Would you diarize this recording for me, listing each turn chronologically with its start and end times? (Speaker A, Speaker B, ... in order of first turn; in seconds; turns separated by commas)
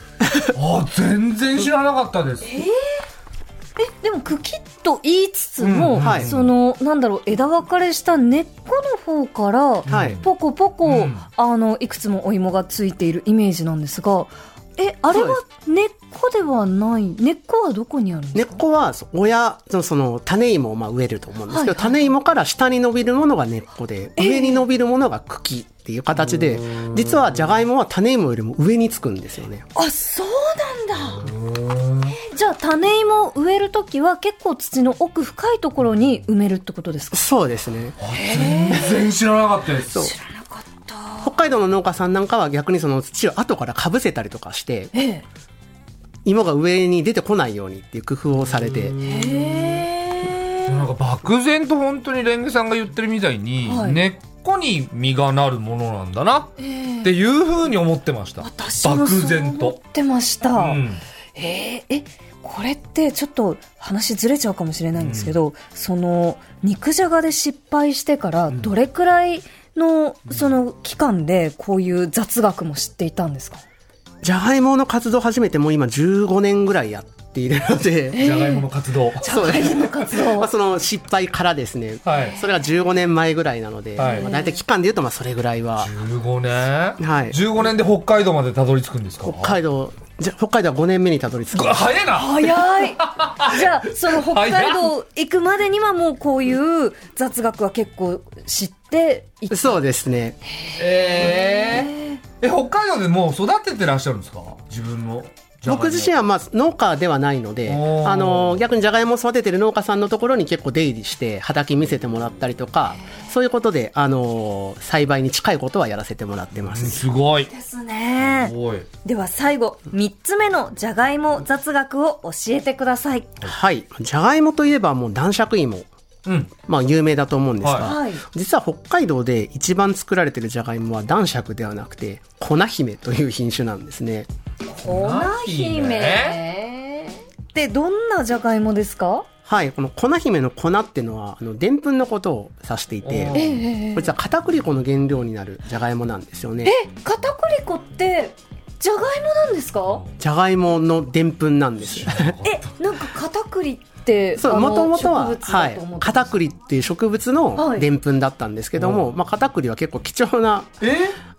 Speaker A: 0.2-0.5, Speaker B: 0.5-2.6, Speaker C: 2.4-3.0, Speaker C: 3.8-18.6, Speaker B: 5.6-6.5, Speaker A: 6.0-6.3, Speaker B: 9.9-10.2, Speaker A: 9.9-10.2, Speaker B: 10.8-11.2, Speaker A: 15.1-15.4, Speaker A: 18.3-29.6, Speaker C: 21.5-22.0, Speaker C: 24.2-24.6, Speaker C: 29.7-31.3, Speaker B: 31.1-32.2, Speaker C: 32.2-37.2, Speaker A: 37.1-38.0, Speaker B: 38.0-40.1, Speaker C: 38.1-39.0, Speaker C: 39.9-41.3, Speaker A: 41.2-44.9, Speaker C: 44.9-45.2, Speaker A: 46.2-48.9, Speaker B: 48.7-49.6, Speaker C: 49.0-50.8, Speaker B: 50.6-59.8, Speaker C: 53.6-54.0, Speaker C: 56.6-57.1, Speaker C: 58.4-60.8, Speaker B: 60.5-61.0, Speaker C: 61.4-73.6, Speaker B: 65.0-65.3, Speaker A: 74.2-78.3, Speaker C: 78.1-78.7, Speaker B: 78.2-79.9, Speaker C: 79.2-80.5, Speaker A: 79.2-85.9, Speaker B: 82.0-82.4, Speaker C: 84.0-84.6, Speaker B: 84.0-84.3, Speaker B: 85.8-89.6, Speaker A: 87.0-87.4, Speaker A: 89.2-91.9, Speaker B: 91.5-94.9, Speaker C: 92.1-99.8, Speaker A: 99.5-100.4, Speaker C: 100.6-102.2, Speaker B: 100.8-106.1, Speaker A: 105.7-117.1, Speaker B: 107.7-108.6, Speaker B: 116.6-117.5, Speaker C: 117.5-123.4, Speaker B: 118.2-118.9, Speaker A: 123.4-125.8, Speaker B: 126.2-126.5, Speaker A: 126.6-134.3, Speaker B: 127.6-127.9, Speaker C: 127.8-128.2, Speaker C: 134.7-139.2, Speaker B: 134.8-136.4, Speaker A: 139.4-143.4, Speaker B: 143.0-143.7, Speaker C: 143.3-144.1, Speaker A: 143.9-146.7, Speaker C: 146.6-150.0, Speaker A: 150.2-152.4, Speaker B: 151.9-152.7, Speaker C: 152.4-156.3, Speaker A: 154.3-160.8, Speaker C: 157.6-157.9, Speaker B: 158.8-159.0, Speaker B: 160.8-161.2